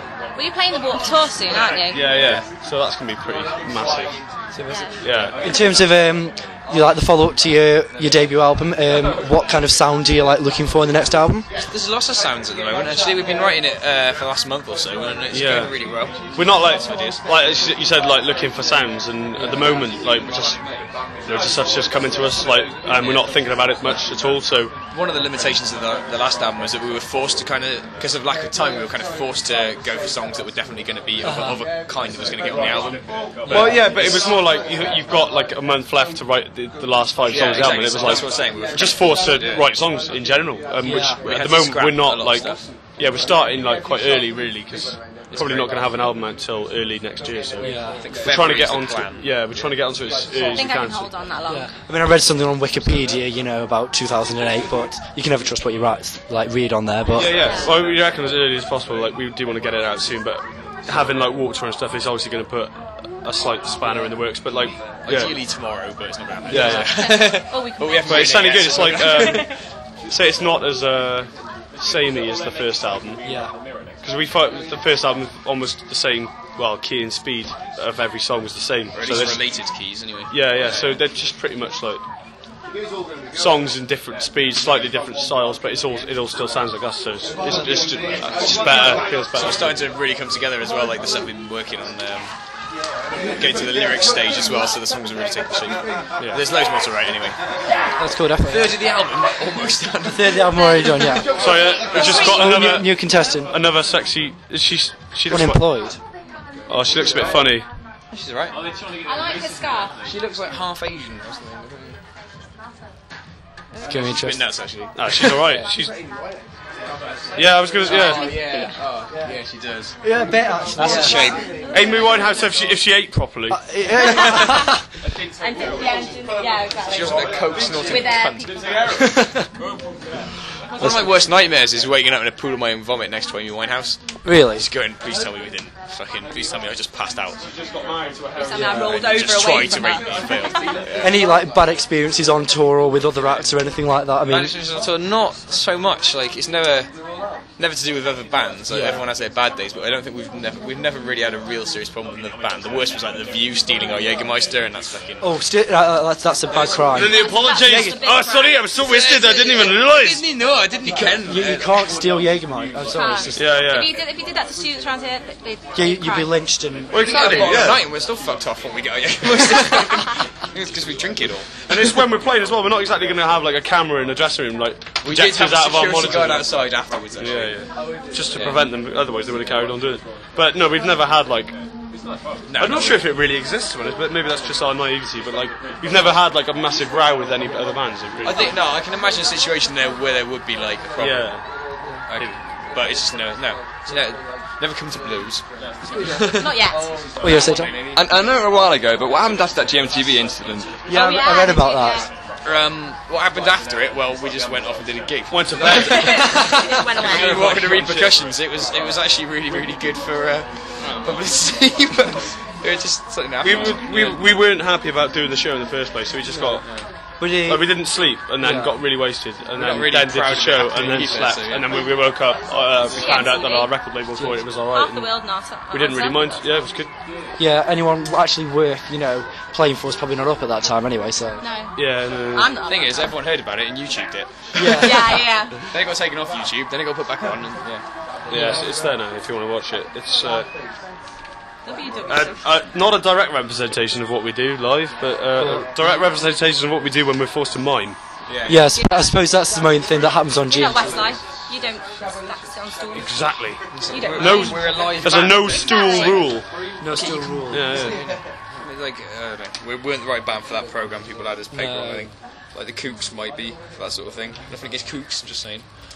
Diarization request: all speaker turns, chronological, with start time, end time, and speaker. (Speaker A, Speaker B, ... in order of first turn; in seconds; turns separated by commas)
Speaker A: 0.3-2.1, Speaker B: 1.9-4.2, Speaker C: 2.1-2.5, Speaker A: 4.7-5.0, Speaker B: 5.0-5.4, Speaker D: 5.4-11.5, Speaker C: 11.6-17.2, Speaker B: 15.3-20.6, Speaker C: 19.4-20.4, Speaker B: 21.2-24.7, Speaker C: 22.9-23.3, Speaker C: 24.9-34.4, Speaker D: 31.2-31.6, Speaker B: 33.5-51.1, Speaker C: 37.3-39.7, Speaker D: 40.8-41.2, Speaker C: 41.2-42.6, Speaker C: 45.3-45.9, Speaker D: 47.6-48.0, Speaker C: 47.9-49.7, Speaker A: 50.5-51.7, Speaker D: 51.5-57.4, Speaker B: 57.1-65.4, Speaker A: 57.2-57.7, Speaker C: 65.0-69.5, Speaker D: 66.5-66.9, Speaker B: 66.5-66.9, Speaker A: 66.6-68.3, Speaker B: 68.0-69.5, Speaker A: 68.9-69.5, Speaker B: 70.1-73.2, Speaker D: 73.2-73.5, Speaker B: 74.0-79.5, Speaker C: 78.9-80.9, Speaker B: 80.3-82.0, Speaker B: 83.3-89.8, Speaker C: 88.3-92.3, Speaker C: 93.3-97.4, Speaker D: 98.0-98.8, Speaker C: 98.4-102.6, Speaker D: 100.1-101.3, Speaker A: 100.5-101.0, Speaker B: 101.4-105.7, Speaker A: 102.0-102.5, Speaker D: 102.1-103.5, Speaker D: 105.3-106.0, Speaker B: 106.7-107.7, Speaker C: 107.0-107.5, Speaker C: 108.1-108.6, Speaker A: 109.0-110.0, Speaker C: 110.0-112.0, Speaker D: 113.8-114.5, Speaker C: 114.1-115.7, Speaker B: 114.9-115.9, Speaker B: 117.4-118.3, Speaker C: 117.8-120.0, Speaker A: 118.0-118.8, Speaker D: 120.0-121.4, Speaker C: 120.8-121.5, Speaker B: 121.7-123.6, Speaker A: 121.8-122.2, Speaker D: 123.5-124.8, Speaker A: 124.0-124.7, Speaker A: 125.4-128.5, Speaker C: 126.9-128.5, Speaker D: 129.0-129.5, Speaker C: 130.8-137.4, Speaker D: 130.8-131.0, Speaker D: 134.2-134.7, Speaker A: 138.4-140.8, Speaker D: 138.5-139.0, Speaker C: 138.7-141.2, Speaker D: 141.0-144.6, Speaker C: 144.3-146.9, Speaker C: 147.6-155.3, Speaker D: 148.7-149.1, Speaker D: 155.2-157.8, Speaker B: 156.9-160.3, Speaker A: 157.0-159.7, Speaker C: 158.9-161.9, Speaker D: 161.2-163.4, Speaker A: 162.9-166.4, Speaker C: 163.0-163.8, Speaker B: 163.3-163.9, Speaker D: 165.8-167.0, Speaker B: 166.9-167.8, Speaker C: 166.9-172.0, Speaker B: 171.7-176.5, Speaker C: 175.0-177.6, Speaker B: 177.2-181.5, Speaker C: 178.3-178.6, Speaker C: 182.5-183.1, Speaker B: 182.6-188.6, Speaker C: 188.2-191.4, Speaker B: 191.0-191.5, Speaker C: 192.1-195.4, Speaker D: 195.9-196.4, Speaker A: 196.3-196.9, Speaker D: 197.2-197.8, Speaker E: 198.0-200.7, Speaker D: 200.9-202.1, Speaker A: 200.9-202.1, Speaker C: 202.4-214.2, Speaker B: 205.3-206.4, Speaker A: 205.7-207.5, Speaker B: 207.0-208.1, Speaker B: 213.4-216.7, Speaker D: 216.3-216.6, Speaker C: 216.6-216.9, Speaker D: 217.2-217.8, Speaker B: 217.4-225.1, Speaker D: 218.4-218.8, Speaker C: 219.5-221.8, Speaker A: 222.9-223.8, Speaker D: 224.2-224.4, Speaker A: 224.6-226.4, Speaker B: 225.7-226.9, Speaker D: 227.4-231.4, Speaker A: 231.4-233.1, Speaker B: 231.8-232.6, Speaker C: 232.7-234.4, Speaker D: 234.6-235.3, Speaker A: 234.8-235.7, Speaker C: 235.7-237.8, Speaker D: 238.3-238.7, Speaker B: 238.3-240.5, Speaker A: 241.7-242.6, Speaker B: 242.1-248.0, Speaker D: 245.4-245.7, Speaker C: 248.3-248.7, Speaker D: 248.5-251.1, Speaker A: 248.7-249.1, Speaker A: 250.5-254.9, Speaker B: 252.9-256.5, Speaker C: 253.7-256.2, Speaker A: 255.4-257.3, Speaker D: 256.8-257.9, Speaker B: 257.5-258.0, Speaker C: 257.8-265.7, Speaker D: 261.5-262.1